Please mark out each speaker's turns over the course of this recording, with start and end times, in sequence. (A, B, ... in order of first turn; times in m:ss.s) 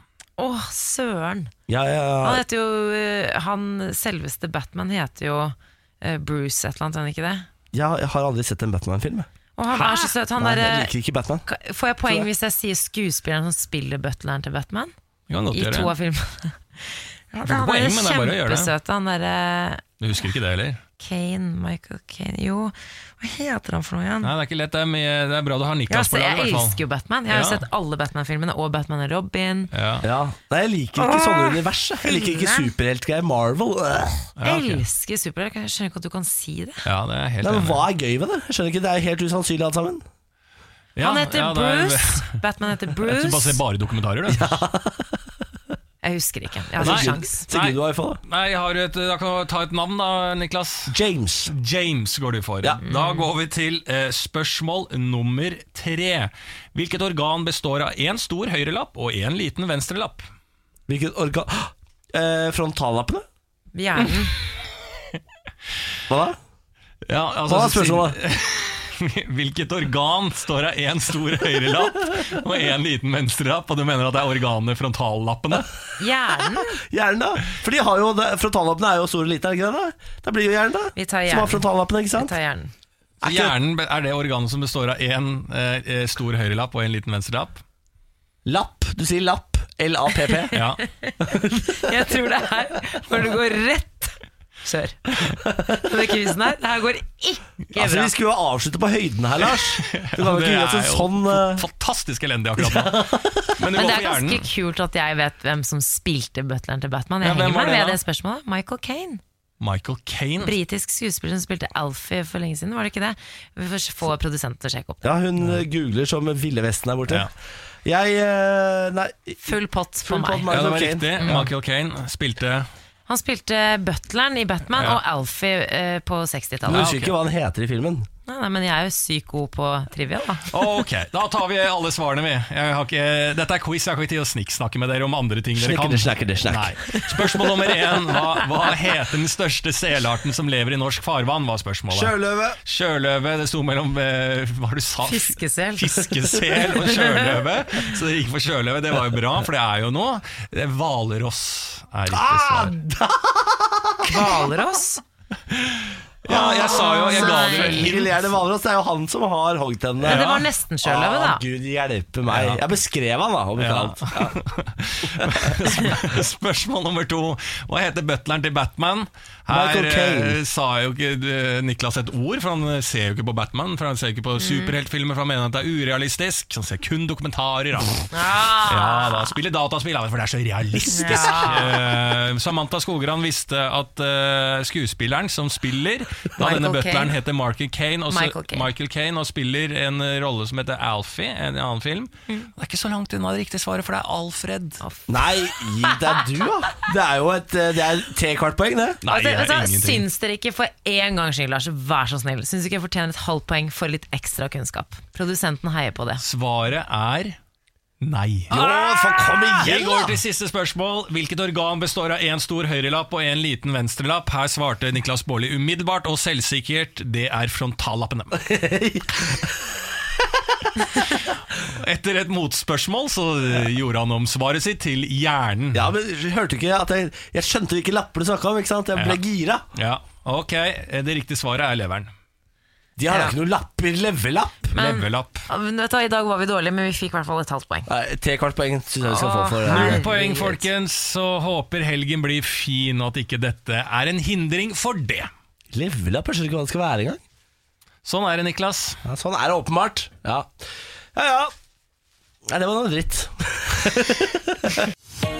0:00.4-0:01.5 A
0:01.7-0:02.4 B
0:02.2-0:07.4 A
0:07.7-0:09.3 B
0:09.6-0:10.9 A
0:09.7-0:10.1 C
0:10.4-0:11.4 B
0:11.4-0:14.9 A
0:15.3-0:15.9 C
0:15.5-0:19.8 A
0:17.4-0:18.7 C
0:20.0-0:20.8 C
0:21.0-0:24.3 A
0:24.2-0:27.6 C
0:25.9-0:29.7 A
0:29.7-0:30.1 C
0:30.0-0:34.3 B
0:31.0-0:32.7 A
0:34.4-0:34.8 C
0:34.4-0:36.8 A
0:36.8-0:37.8 C
0:37.4-0:40.0 B
0:41.0-0:42.4 C
0:41.0-0:43.6 A
0:43.0-0:44.6 C
0:44.3-0:45.2 B
0:46.0-0:47.5 A
0:46.8-0:48.2 B
0:46.8-0:50.9 C
0:50.9-0:51.5 B
0:51.5-1:00.2 C
0:52.8-0:53.3 A
1:00.9-1:03.2 B
1:03.7-1:04.3 A
1:06.1-1:06.4 B
1:07.1-1:15.7 C
1:07.5-1:08.2 B
1:16.0-1:16.8 A
1:16.5-1:22.3 B
1:21.0-1:22.7 A
1:23.2-1:23.6 B
1:23.2-1:27.6 C
1:28.4-1:30.6 B
1:30.5-1:30.8 C
1:30.5-1:38.1 A
1:31.2-1:31.9 B
1:37.7-1:41.6 B
1:39.5-1:44.5 C
1:42.6-1:43.5 B
1:43.6-1:49.2 A
1:47.2-1:48.0 C
1:49.6-1:50.5 C
1:50.4-1:55.1 A
1:55.0-1:57.3 B
1:57.8-2:01.4 B
1:59.4-2:00.5 A
2:00.5-2:02.7 C
2:01.2-2:01.5 A
2:03.1-2:06.9 A
2:06.6-2:08.1 B
2:06.7-2:07.1 C
2:08.2-2:10.5 A
2:10.5-2:32.7 C
2:15.5-2:16.8 B
2:21.9-2:22.6 B
2:25.0-2:27.3 A
2:32.1-2:34.5 B
2:34.0-2:35.0 A
2:35.5-2:38.2 C
2:36.3-2:44.4 B
2:36.3-2:38.0 A
2:40.0-2:41.4 A
2:40.0-2:40.5 C
2:42.3-2:42.6 C
2:43.6-3:14.8 C
2:45.2-2:45.6 B
2:49.5-2:50.4 B
2:54.4-2:54.7 A
2:58.1-2:59.3 A
3:00.9-3:01.7 A
3:06.4-3:07.2 A
3:08.1-3:08.7 A
3:14.8-3:16.3 A
3:15.1-3:19.0 B
3:19.0-3:20.0 C
3:19.1-3:26.2 A
3:26.2-3:27.4 C
3:28.0-3:28.6 C
3:28.5-3:30.2 B
3:28.5-3:28.9 A
3:29.5-3:38.4 C
3:38.4-3:39.8 B
3:41.0-3:45.9 C
3:45.7-3:49.6 B
3:48.9-3:49.2 C
3:49.7-3:52.1 C
3:53.0-3:54.7 B
3:53.1-3:53.4 A
3:54.7-3:55.4 C
3:54.7-3:57.9 A
3:57.9-4:00.0 B
3:59.0-4:00.6 A
3:59.6-4:05.3 C
4:05.7-4:07.2 B
4:08.0-4:09.0 C
4:09.0-4:10.5 B
4:11.1-4:11.5 B
4:12.4-4:14.9 B